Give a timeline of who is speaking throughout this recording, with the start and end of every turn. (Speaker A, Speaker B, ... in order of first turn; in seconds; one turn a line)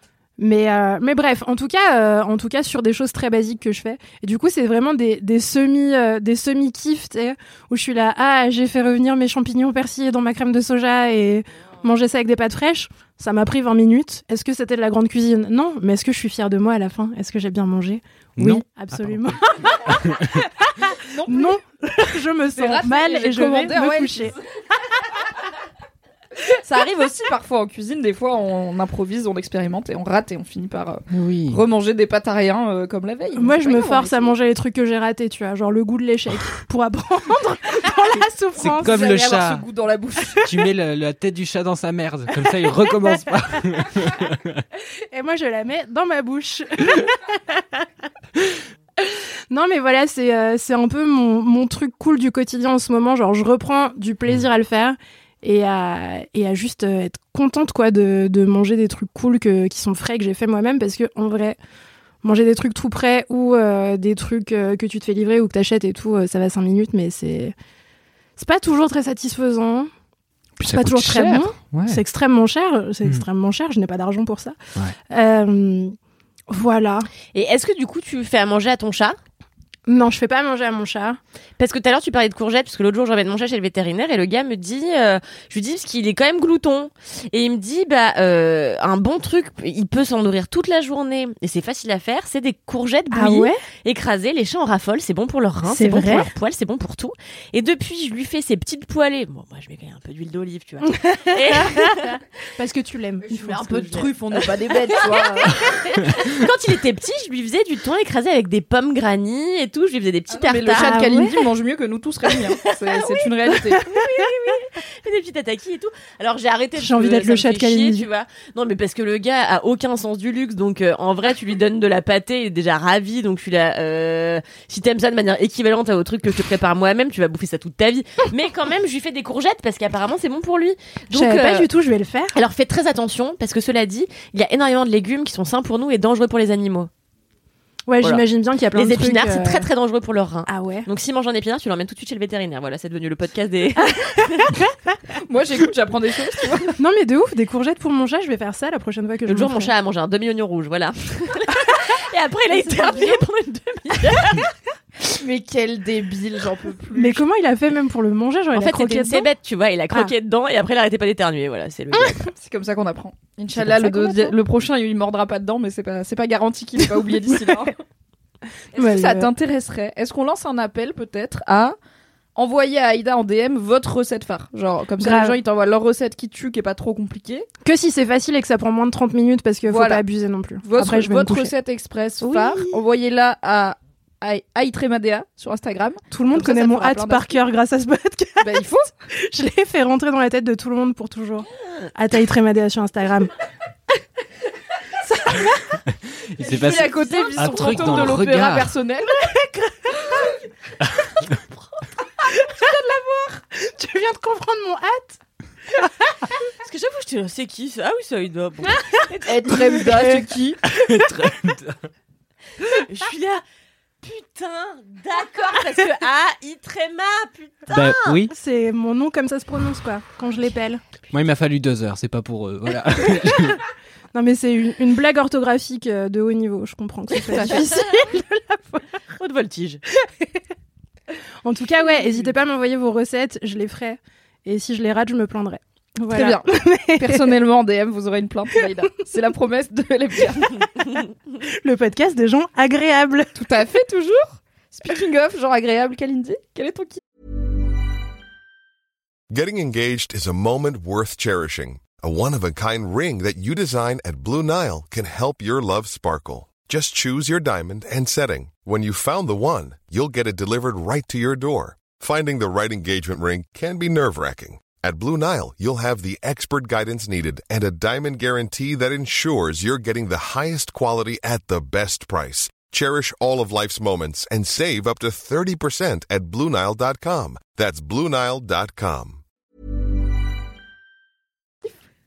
Speaker A: 0.4-24.4
Speaker B: 18.4-19.3
Speaker C: 21.0-21.6
Speaker C: 22.5-24.3
Speaker C: 26.6-34.4
Speaker B: 31.1-31.6
Speaker A: 33.4-39.0
Speaker B: 38.6-39.6
Speaker C: 38.8-40.5
Speaker B: 40.5-44.6
Speaker A: 45.1-47.4
Speaker A: 49.0-61.6
Speaker A: 62.2-67.5
Speaker A: 68.4-69.9
Speaker B: 70.6-72.0
Speaker A: 70.7-74.6
Speaker A: 75.1-76.0
Speaker A: 76.5-77.1
Speaker D: 77.3-79.2
Speaker A: 79.9-81.2
Speaker D: 81.6-102.2
Speaker A: 93.1-93.6
Speaker A: 95.7-96.3
Speaker A: 100.8-103.9
Speaker D: 103.2-104.1
Speaker C: 103.8-105.6
Speaker D: 105.6-111.0
Speaker C: 110.3-113.8
Speaker A: 110.8-111.4
Speaker D: 113.8-131.7
Speaker A: 116.8-118.1
Speaker A: 131.1-132.3
Speaker D: 132.3-136.9
Speaker A: 137.9-139.7
Speaker D: 138.0-144.6
Speaker A: 140.5-140.9
Speaker C: 145.2-146.8
Speaker A: 146.8-149.7
Speaker D: 149.3-154.5
Speaker A: 152.6-153.2
Speaker C: 155.2-157.2
Speaker A: 156.9-159.3
Speaker D: 158.5-162.3
Speaker C: 162.3-167.8
Speaker A: 163.7-164.3
Speaker C: 168.7-171.8
Speaker A: 168.7-169.3
Speaker C: 172.4-177.5
Speaker A: 175.0-175.4
Speaker A: 177.6-181.5
Speaker C: 179.7-180.0
Speaker C: 180.6-187.4
Speaker A: 182.2-182.8
Speaker A: 186.1-188.6
Speaker C: 188.4-188.9
Speaker A: 189.3-193.3
Speaker A: 195.0-195.8
Speaker B: 196.3-198.7
Speaker A: 196.4-197.9
Speaker C: 196.4-199.1
Speaker A: 200.0-200.3
Speaker A: 202.3-202.7
Speaker C: 202.6-203.4
Speaker A: 203.6-205.2
Speaker D: 206.6-210.1
Speaker C: 209.2-210.6
Speaker B: 210.7-211.8
Speaker D: 212.8-213.4
Speaker D: 214.0-218.2
Speaker B: 217.7-218.3
Speaker A: 218.3-220.8
Speaker B: 221.1-223.6
Speaker A: 224.1-228.9
Speaker C: 227.3-227.6
Speaker D: 229.1-229.8
Speaker A: 230.1-230.3
Speaker A: 231.4-237.3
Speaker C: 236.1-240.6
Speaker A: 240.6-241.0
Speaker A: 241.6-243.3
Speaker C: 243.3-247.0
Speaker E: 249.3-279.2